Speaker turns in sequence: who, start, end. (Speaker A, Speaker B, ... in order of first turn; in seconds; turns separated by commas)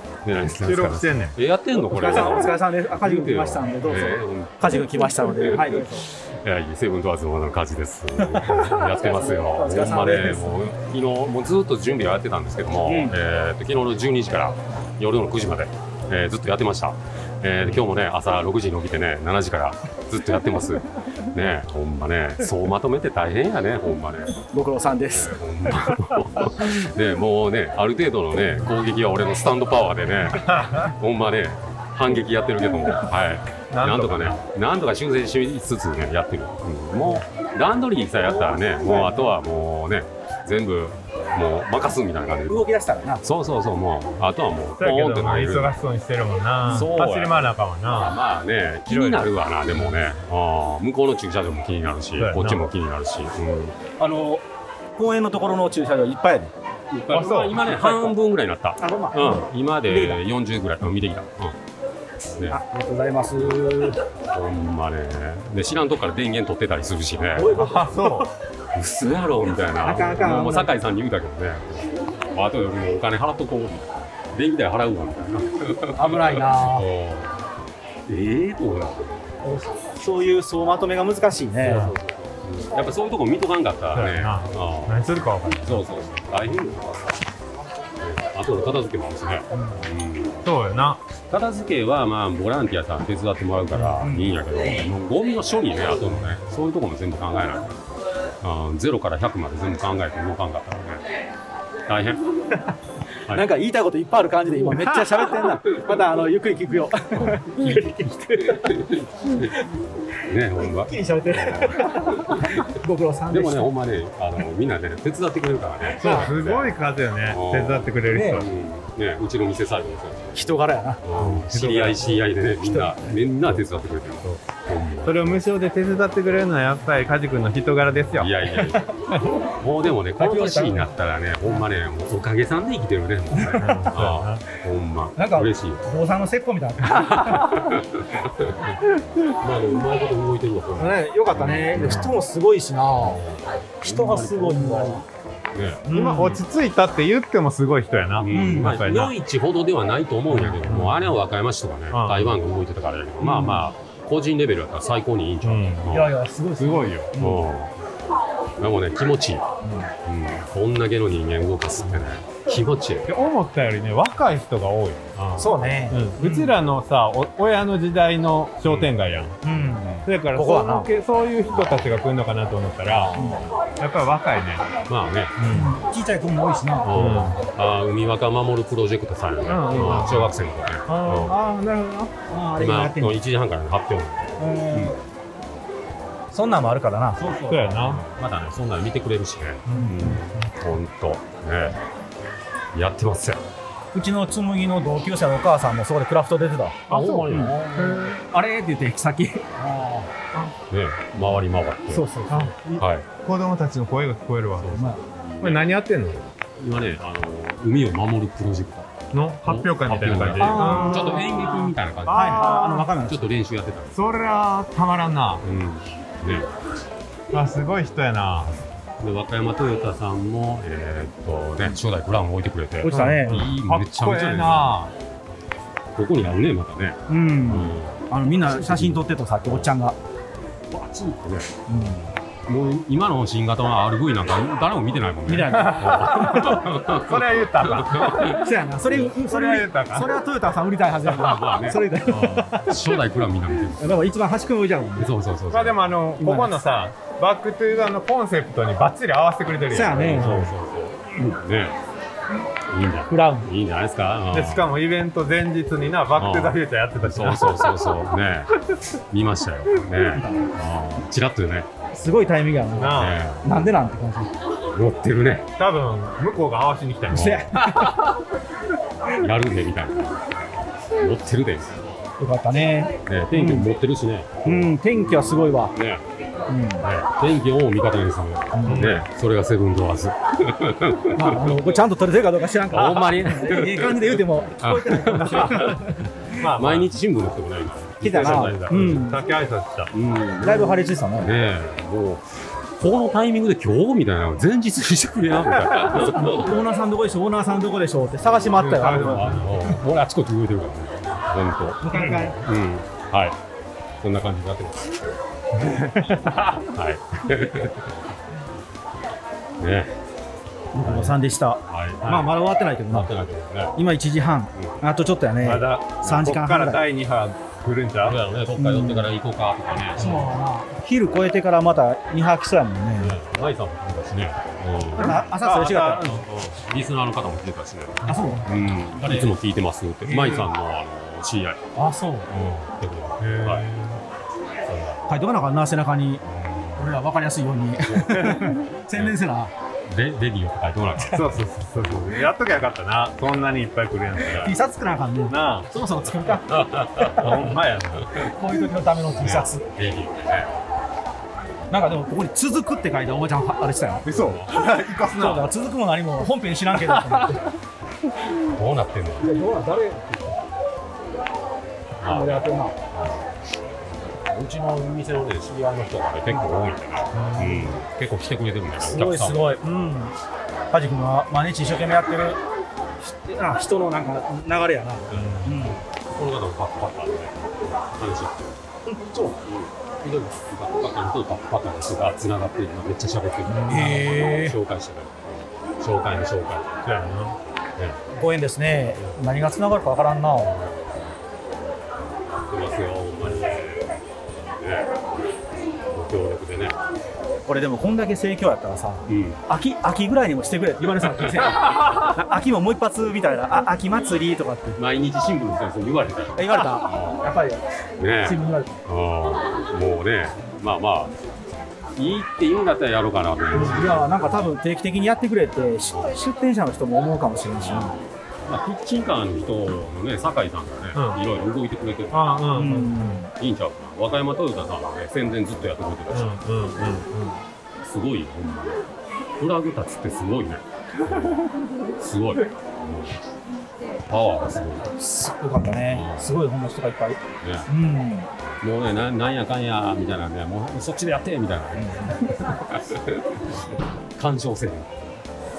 Speaker A: 0.2-24.4, Speaker B: 0.4-1.4, Speaker C: 1.8-6.1, Speaker C: 8.3-10.6, Speaker C: 12.8-13.2, Speaker C: 24.4-25.4, Speaker A: 25.1-42.7, Speaker B: 30.4-30.8, Speaker B: 33.7-34.4, Speaker C: 38.2-39.1, Speaker B: 38.9-39.2, Speaker C: 42.5-43.2, Speaker A: 43.2-45.8, Speaker B: 44.8-48.2, Speaker A: 46.7-47.3, Speaker C: 46.7-47.3, Speaker A: 47.9-53.8, Speaker B: 48.9-49.9, Speaker B: 52.1-52.6, Speaker C: 54.0-54.4, Speaker C: 54.9-56.5, Speaker A: 56.9-61.5, Speaker B: 57.1-58.0, Speaker C: 58.8-60.2, Speaker C: 62.5-64.0, Speaker A: 64.3-67.7, Speaker C: 67.3-68.3, Speaker B: 67.5-68.3, Speaker A: 68.8-77.3, Speaker C: 69.8-70.7, Speaker C: 75.9-76.9, Speaker A: 78.1-79.2, Speaker C: 79.4-81.9, Speaker A: 81.6-85.0, Speaker B: 83.9-85.8, Speaker A: 85.6-87.1, Speaker A: 88.0-90.4, Speaker B: 90.4-91.0, Speaker A: 91.3-97.8, Speaker B: 93.7-94.3, Speaker C: 94.0-94.3, Speaker B: 96.0-96.3, Speaker A: 98.4-101.0, Speaker A: 101.9-102.3, Speaker C: 103.3-109.7, Speaker A: 104.7-105.6, Speaker A: 107.2-109.5, Speaker A: 110.2-112.7, Speaker C: 110.6-113.7, Speaker A: 113.3-116.8, Speaker C: 116.0-116.3, Speaker B: 116.0-118.5, Speaker A: 117.3-125.4, Speaker C: 118.1-118.4, Speaker C: 120.3-121.0, Speaker B: 121.2-122.2, Speaker C: 122.6-123.1, Speaker B: 125.0-128.3, Speaker A: 128.2-129.0, Speaker B: 129.1-129.4, Speaker A: 129.6-135.8, Speaker C: 130.2-130.9, Speaker C: 133.3-133.9, Speaker B: 133.5-134.4, Speaker C: 135.2-137.7, Speaker A: 136.9-142.1, Speaker C: 140.8-143.2, Speaker B: 141.7-142.2, Speaker A: 143.0-145.8, Speaker C: 143.8-145.0, Speaker C: 145.8-146.4, Speaker B: 145.9-149.1, Speaker A: 148.2-156.1, Speaker C: 148.3-148.8, Speaker B: 150.3-151.1, Speaker B: 151.9-152.4, Speaker C: 153.2-153.7, Speaker B: 155.4-155.9, Speaker C: 155.9-157.4, Speaker B: 156.6-157.1, Speaker A: 157.2-157.7, Speaker A: 158.6-159.4, Speaker A: 160.0-163.1, Speaker B: 163.1-165.1, Speaker A: 165.1-165.8, Speaker C: 165.4-166.6, Speaker B: 165.9-169.3, Speaker A: 168.6-168.9, Speaker C: 169.4-170.9, Speaker A: 169.5-170.0, Speaker B: 170.0-173.2, Speaker A: 172.9-173.4, Speaker C: 173.1-173.4, Speaker B: 173.8-174.7, Speaker A: 174.8-175.4, Speaker B: 175.4-175.8, Speaker C: 175.5-177.3, Speaker A: 176.8-181.3, Speaker B: 176.9-177.4, Speaker B: 179.4-180.3, Speaker B: 180.9-182.1, Speaker C: 182.2-183.2, Speaker A: 182.6-184.9, Speaker C: 184.4-184.9, Speaker C: 186.3-187.6, Speaker A: 187.2-191.8, Speaker B: 187.4-188.0, Speaker C: 189.7-190.1, Speaker B: 189.8-190.3, Speaker A: 192.7-193.4, Speaker C: 193.9-197.5, Speaker A: 196.9-198.2, Speaker B: 196.9-198.1, Speaker C: 198.1-200.1, Speaker A: 200.7-202.1, Speaker C: 201.9-202.5, Speaker B: 202.3-204.8, Speaker A: 202.8-203.1, Speaker A: 204.6-205.6, Speaker B: 205.4-206.3, Speaker A: 206.6-208.9, Speaker B: 209.1-211.3, Speaker A: 209.4-214.0, Speaker C: 210.3-211.5, Speaker B: 212.0-212.9, Speaker C: 212.1-213.3, Speaker B: 213.9-215.4, Speaker A: 215.4-216.5, Speaker B: 217.3-218.6, Speaker A: 219.0-224.8, Speaker C: 222.8-223.5, Speaker B: 222.9-224.9, Speaker A: 225.9-229.7, Speaker C: 227.1-230.0, Speaker A: 230.7-231.6, Speaker C: 231.7-232.1, Speaker A: 232.5-238.5, Speaker C: 235.3-236.6, Speaker B: 235.5-240.1, Speaker C: 238.3-242.8, Speaker A: 241.0-244.0, Speaker C: 243.7-245.1, Speaker A: 245.0-245.9, Speaker B: 245.5-250.5, Speaker C: 246.2-246.6, Speaker C: 249.7-250.4, Speaker A: 249.9-251.8, Speaker A: 252.7-254.7, Speaker C: 253.1-253.5, Speaker B: 254.3-257.9, Speaker A: 256.1-258.6, Speaker A: 259.1-261.7, Speaker C: 260.1-260.5, Speaker C: 261.9-264.3, Speaker B: 262.8-263.3, Speaker A: 262.8-263.4, Speaker A: 264.6-265.5, Speaker B: 265.6-267.7, Speaker C: 267.1-268.0, Speaker A: 267.6-267.9, Speaker A: 269.1-270.3, Speaker A: 270.9-271.8, Speaker C: 272.2-273.7, Speaker A: 273.0-276.0, Speaker C: 274.4-275.7, Speaker C: 276.5-276.9, Speaker A: 276.8-281.8, Speaker C: 278.5-278.9, Speaker B: 278.6-279.1, Speaker C: 281.1-286.2, Speaker A: 282.6-289.1, Speaker B: 286.3-286.9, Speaker C: 288.0-289.2, Speaker B: 288.3-289.9, Speaker A: 289.9-296.6, Speaker C: 290.4-291.3, Speaker C: 296.1-299.4, Speaker B: 298.5-299.8, Speaker A: 298.6-303.4, Speaker C: 301.8-302.4, Speaker A: 304.0-304.9, Speaker B: 305.6-306.6, Speaker A: 306.7-307.9, Speaker A: 309.6-309.9, Speaker C: 310.7-313.1, Speaker A: 310.8-312.3, Speaker B: 312.0-312.3, Speaker A: 312.8-313.8, Speaker C: 313.7-316.8, Speaker B: 315.4-318.2, Speaker A: 318.0-320.4, Speaker C: 318.6-319.1, Speaker C: 319.9-323.1, Speaker A: 323.0-325.2, Speaker B: 324.9-326.2, Speaker C: 325.0-326.2, Speaker A: 325.9-331.6, Speaker C: 328.0-329.3, Speaker B: 330.1-330.5, Speaker C: 331.7-332.3, Speaker A: 332.3-333.7, Speaker B: 333.2-334.0, Speaker A: 334.6-335.1, Speaker C: 335.1-336.2, Speaker A: 336.2-337.0, Speaker C: 336.8-339.5, Speaker A: 337.8-339.1, Speaker A: 339.9-342.3, Speaker B: 341.1-344.5, Speaker C: 344.3-347.5, Speaker B: 345.3-345.7, Speaker A: 346.2-347.6, Speaker B: 347.1-348.1, Speaker C: 348.2-349.6, Speaker A: 349.1-350.6, Speaker C: 351.7-357.4, Speaker A: 354.1-354.6, Speaker B: 354.1-355.5, Speaker B: 356.8-357.4, Speaker A: 358.5-359.5, Speaker C: 359.2-360.4, Speaker A: 362.0-363.3, Speaker C: 362.0-362.7, Speaker A: 364.1-369.6, Speaker B: 367.1-367.8, Speaker C: 368.8-370.1, Speaker B: 369.6-370.0, Speaker C: 370.7-372.4, Speaker C: 373.0-375.8, Speaker A: 375.1-378.6, Speaker B: 375.1-375.7, Speaker C: 378.9-379.4, Speaker A: 379.4-387.0, Speaker C: 383.5-384.6, Speaker B: 386.8-387.4, Speaker C: 388.1-390.5, Speaker A: 390.3-391.1, Speaker A: 392.5-394.0, Speaker A: 394.6-395.1, Speaker A: 395.9-396.8, Speaker C: 397.4-404.8, Speaker A: 399.1-399.4, Speaker A: 404.8-407.3, Speaker C: 406.3-407.6, Speaker A: 408.0-411.1, Speaker C: 408.2-408.7, Speaker A: 411.9-414.3, Speaker C: 413.5-417.9, Speaker A: 417.6-422.4, Speaker B: 420.9-421.2, Speaker B: 422.1-423.2, Speaker C: 422.5-423.3, Speaker A: 423.4-426.4, Speaker B: 426.1-427.4, Speaker A: 427.8-428.8, Speaker A: 429.4-433.2, Speaker A: 434.1-434.9, Speaker C: 434.9-438.3, Speaker A: 435.7-436.4, Speaker A: 437.4-437.7, Speaker A: 438.6-443.5, Speaker C: 441.7-442.2, Speaker A: 444.1-445.2